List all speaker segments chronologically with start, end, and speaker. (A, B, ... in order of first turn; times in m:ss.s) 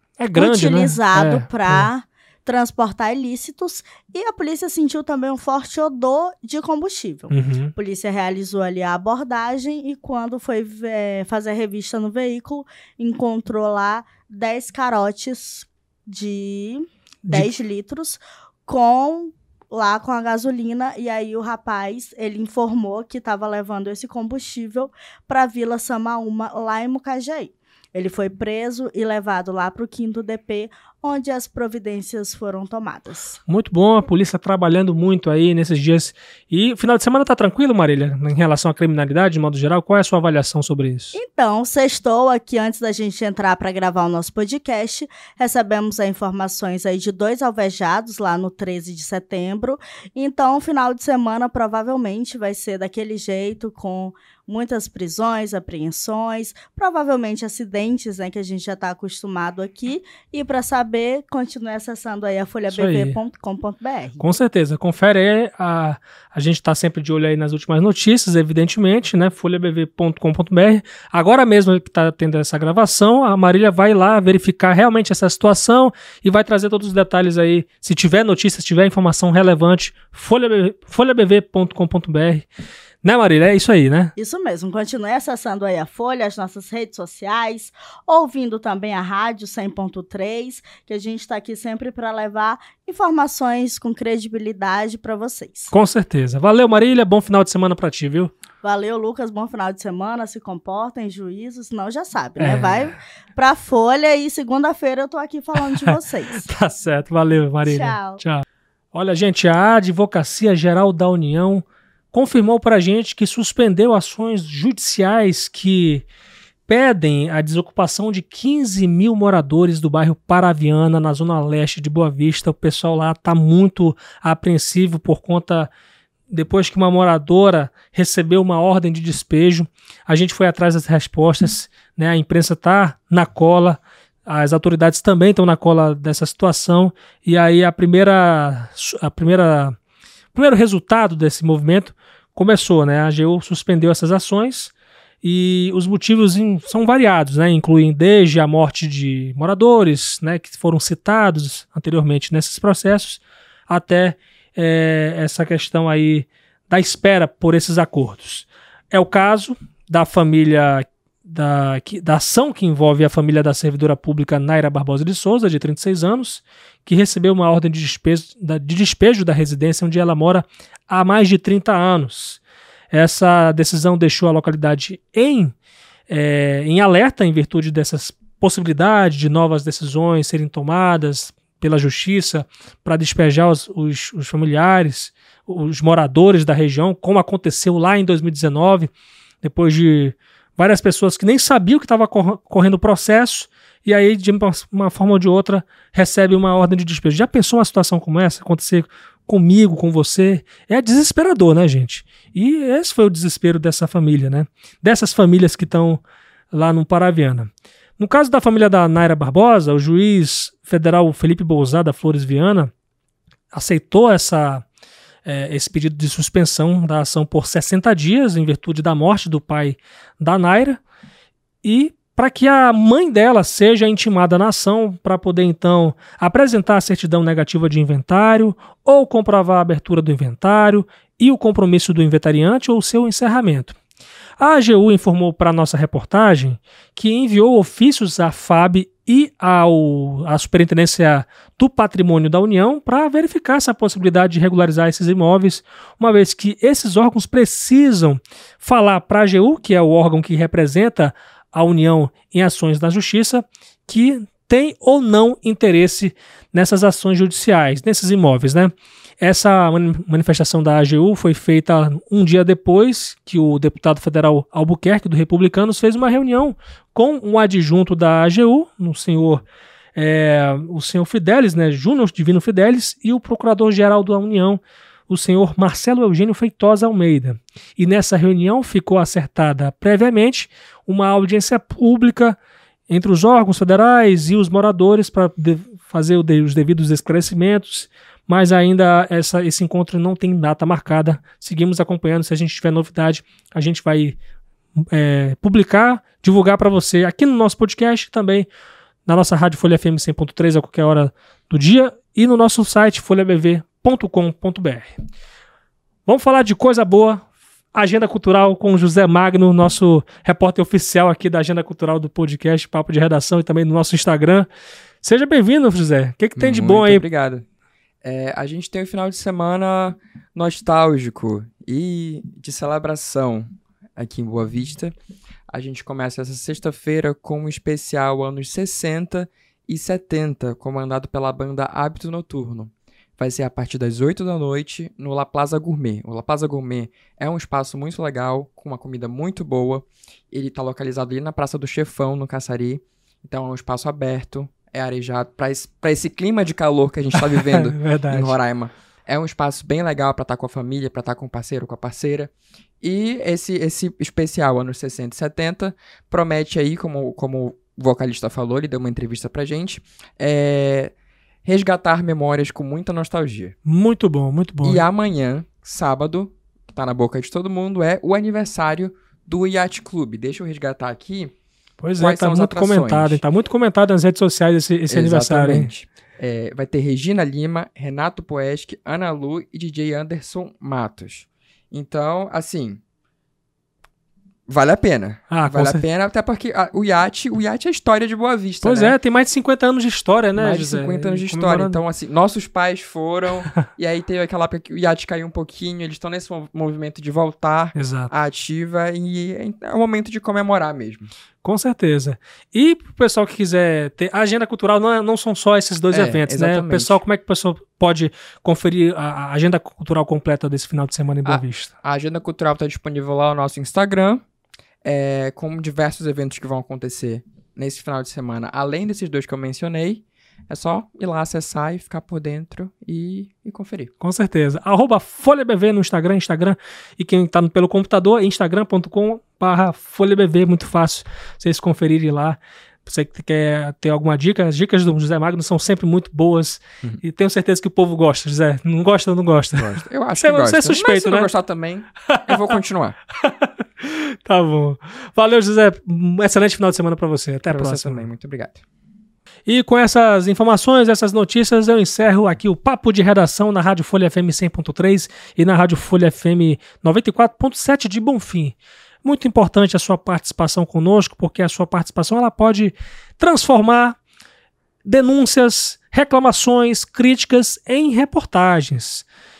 0:00.2-0:01.9 A
0:00.3-0:33.4 B
0:07.3-0:07.7 A
0:33.5-0:41.2 A
0:41.1-1:04.2 B
1:02.7-1:03.2 A
1:04.2-1:22.4 A
1:23.0-1:24.1 A
1:24.2-1:35.7 B
1:35.7-1:38.3 A
1:38.6-1:46.5 B
1:42.4-1:43.0 A
1:45.8-1:56.0 A
1:47.6-1:48.2 B
1:56.7-2:05.7 A
2:06.3-2:19.8 A
2:20.3-2:55.5 A
2:56.1-3:08.9 A
3:09.4-3:32.7 A
3:33.5-3:34.6 A
3:35.2-3:40.8 A
3:41.6-3:53.8 A
3:54.4-4:29.4 A
4:30.0-4:42.4 A
4:42.9-4:54.2 A
4:54.9-4:58.5 A
4:59.0-5:04.9 A
5:06.0-5:14.5 A
5:15.0-5:17.0 A
5:16.4-5:17.4 C
5:18.0-5:23.4 C
5:24.0-5:25.0 C
5:25.5-6:03.5 C
5:47.1-5:48.4 A
6:03.6-6:04.8 A
6:04.6-6:11.3 C
6:11.8-6:15.7 A
6:12.0-6:13.2 C
6:14.9-6:22.8 C
6:24.5-6:29.0 C
6:25.3-6:25.8 A
6:28.6-6:31.8 A
6:30.4-6:41.1 C
6:37.8-6:38.1 A
6:41.4-6:51.7 A
6:45.9-6:47.0 C
6:51.2-6:54.2 C
6:54.8-7:03.9 C
7:04.0-7:21.3 A
7:19.5-7:23.0 C
7:22.1-7:22.4 A
7:23.2-7:28.1 A
7:27.5-7:28.6 C
7:29.5-7:44.0 A
7:44.8-7:49.0 A